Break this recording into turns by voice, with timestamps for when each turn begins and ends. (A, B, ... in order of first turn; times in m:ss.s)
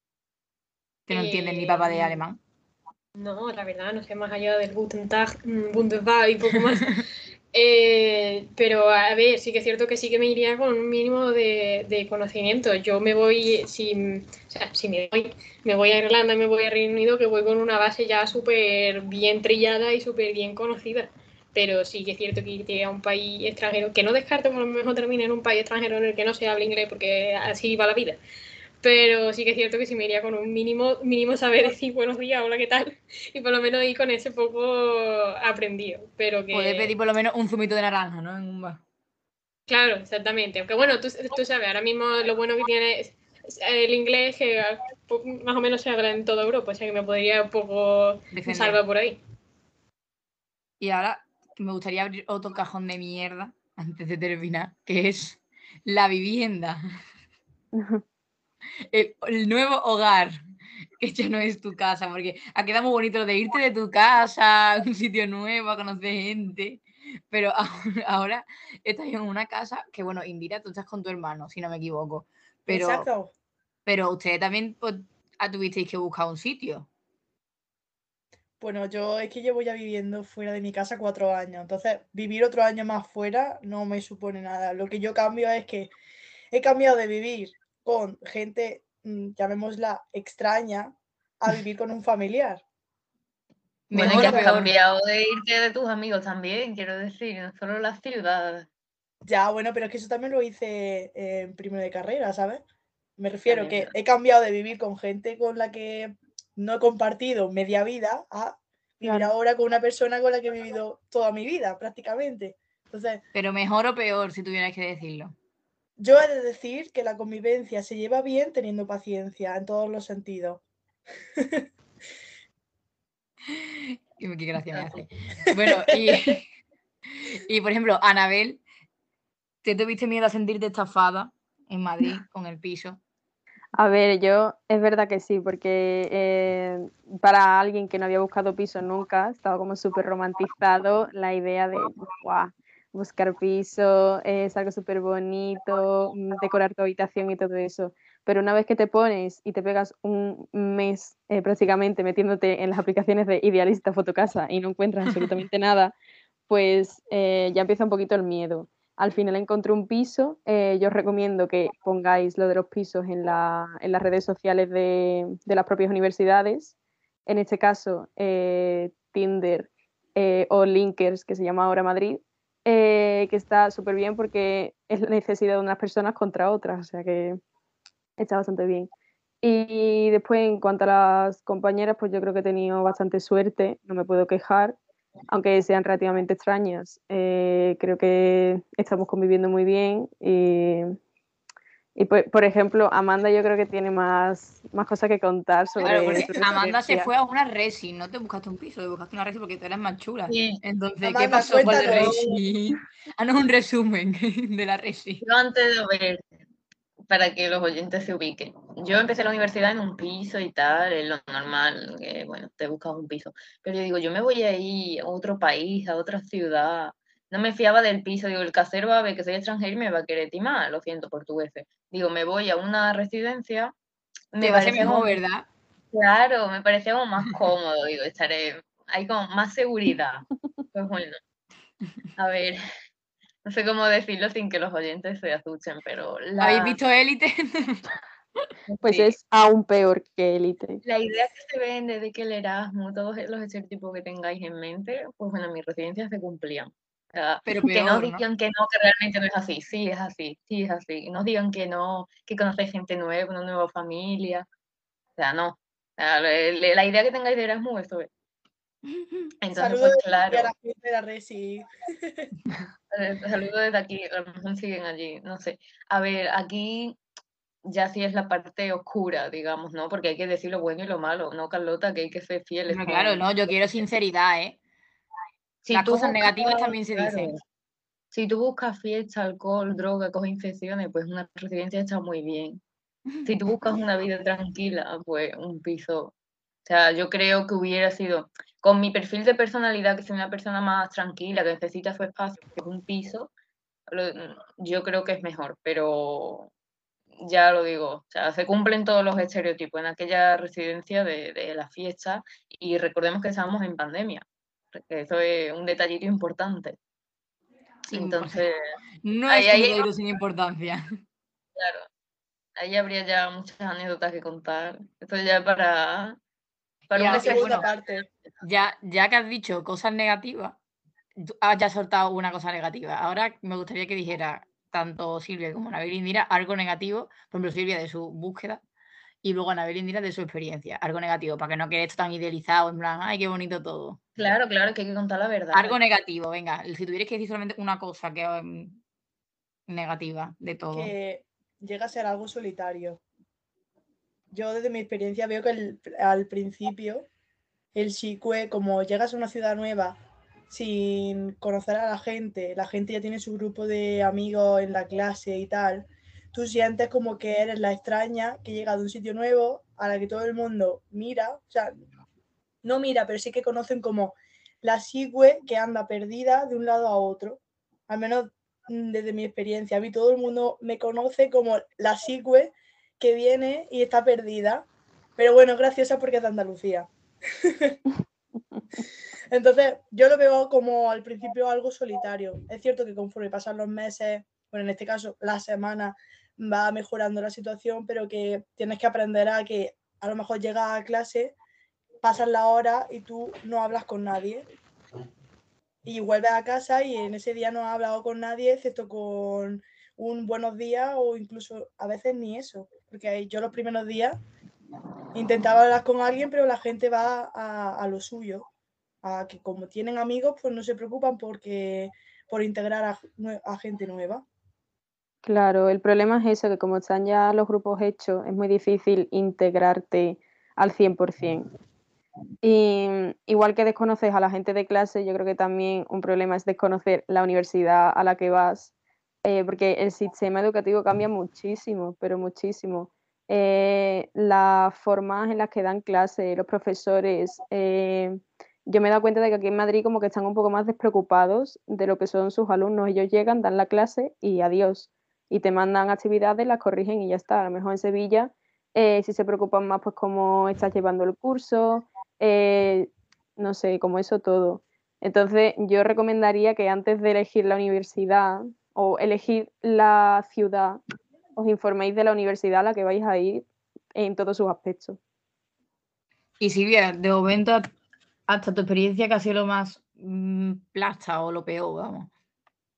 0:01.1-0:02.4 A
0:01.1-0:02.2 B
0:03.2-0:28.2 B
0:28.8-0:36.9 B
0:36.5-0:38.8 A
0:39.7-0:49.2 B
0:48.3-0:48.8 A
0:50.8-0:56.8 A
0:57.8-0:58.0 C
0:58.9-1:00.3 A
1:01.0-1:13.1 A
1:12.7-1:13.3 D
1:13.9-1:16.9 A
1:18.6-1:25.9 D
1:26.5-1:32.6 D
1:33.9-1:34.7 A
1:33.9-1:34.5 D
1:33.9-1:38.7 E
1:39.3-1:42.6 D
1:43.2-1:53.2 D
1:43.5-1:43.9 E
1:49.0-1:49.3 C
1:53.3-1:55.4 A
1:56.0-2:00.6 D
2:01.4-2:01.7 D
2:03.5-2:06.4 A
2:04.7-2:05.0 E
2:05.8-2:06.1 D
2:07.2-2:08.6 A
2:09.6-2:13.0 A
2:13.8-2:36.0 C
2:36.5-2:46.7 C
2:47.3-2:57.4 C
2:58.2-2:58.9 C
2:59.4-3:04.8 C
3:05.3-3:11.0 C
3:12.0-3:17.1 C
3:15.8-3:16.7 E
3:15.8-3:25.2 A
3:20.3-3:20.6 E
3:21.0-3:22.2 D
3:21.4-3:22.4 E
3:25.2-3:26.2 E
3:27.1-3:43.7 E
3:44.3-3:45.2 E
3:44.4-3:45.5 A
3:45.9-3:51.2 E
3:52.2-3:52.6 E
3:53.4-3:56.8 E
3:56.4-3:57.9 A
3:58.7-3:59.2 E
3:58.8-4:00.8 C
4:00.8-4:14.5 E
4:07.4-4:08.2 A
4:15.2-4:18.1 E
4:19.0-4:19.2 A
4:19.4-4:20.5 E
4:19.5-4:22.3 D
4:22.9-4:27.0 E
4:27.6-4:33.9 E
4:32.7-4:34.6 A
4:35.6-4:37.4 E
4:35.7-4:37.4 A
4:38.1-4:42.6 E
4:43.2-4:46.1 E
4:46.6-4:53.3 E
4:53.9-4:56.5 E
4:57.2-5:06.8 E
5:07.9-5:08.4 A
5:07.9-5:08.5 E
5:09.0-5:10.8 A
5:09.3-5:09.9 E
5:11.6-5:11.9 E
5:12.6-5:16.2 E
5:16.9-5:17.7 E
5:16.9-5:17.7 A
5:17.0-5:18.1 D
5:18.4-5:20.6 A
5:21.2-5:28.6 A
5:29.2-5:34.0 A
5:34.2-5:35.8 E
5:35.5-5:38.8 A
5:39.7-5:40.9 A
5:40.7-5:43.0 D
5:44.3-5:47.1 D
5:47.8-5:50.0 D
5:50.5-6:01.7 D
6:02.6-6:16.9 D
6:17.4-6:17.8 D
6:19.3-6:31.4 D
6:32.0-6:34.4 D
6:35.8-6:44.2 D
6:45.1-6:48.5 D
6:49.0-6:54.2 D
6:55.2-7:01.5 C
7:02.4-7:08.7 C
7:09.2-7:40.8 C
7:41.4-7:45.0 C
7:46.4-7:47.7 A
7:48.3-7:52.1 A